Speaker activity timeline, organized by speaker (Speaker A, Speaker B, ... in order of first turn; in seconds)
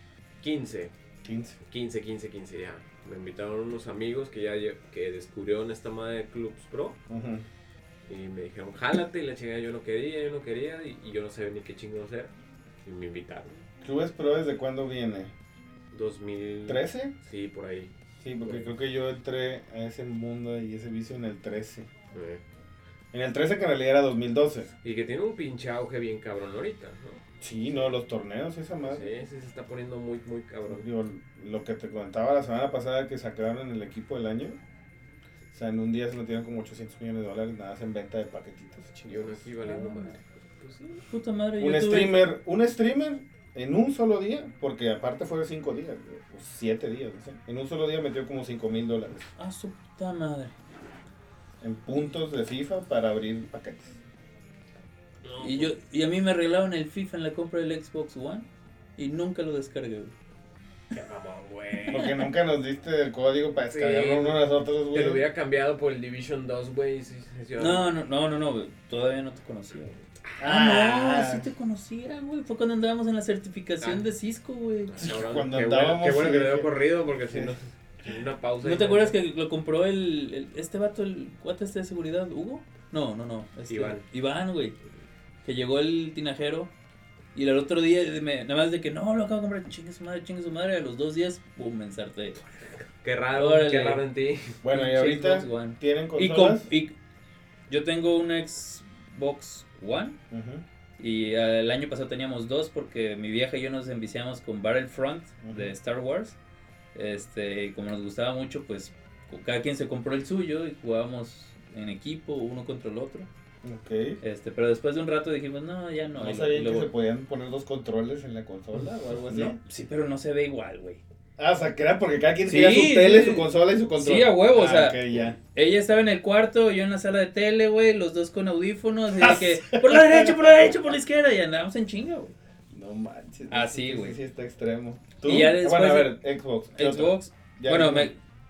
Speaker A: 0.4-0.9, 1.7-7.0, 8.1-12.3, 12.8-13.6, 15.9-17.9, 22.1-22.4, 24.8-27.2, 28.8-30.8, 39.0-41.0, 55.2-55.7, 60.9-62.2, 63.7-67.9, 74.9-79.1, 83.7-84.0, 93.0-94.6
Speaker B: 1.2-1.6, 7.1-7.5, 13.8-15.3, 16.7-17.1, 18.2-21.9, 23.1-24.7, 27.4-29.1, 30.7-34.6, 35.5-39.5, 41.6-49.3, 51.6-54.0, 61.9-65.2, 70.4-71.5, 75.0-76.7, 77.3-77.5, 94.6-96.7, 100.3-100.6, 105.4-105.7, 113.6-114.2, 116.2-119.6, 121.4-125.3, 129.2-130.6, 132.7-138.1
Speaker C: 39.6-40.2, 41.1-42.2, 49.4-50.5, 55.4-60.1, 67.6-75.0, 78.6-84.8, 85.4-86.7, 87.3-92.4, 93.3-94.0, 94.7-96.9, 97.7-100.2, 101.0-106.4, 106.9-113.3, 114.2-116.9, 119.3-121.0, 122.5-132.3, 133.5-134.2, 135.2-136.2, 136.7-138.2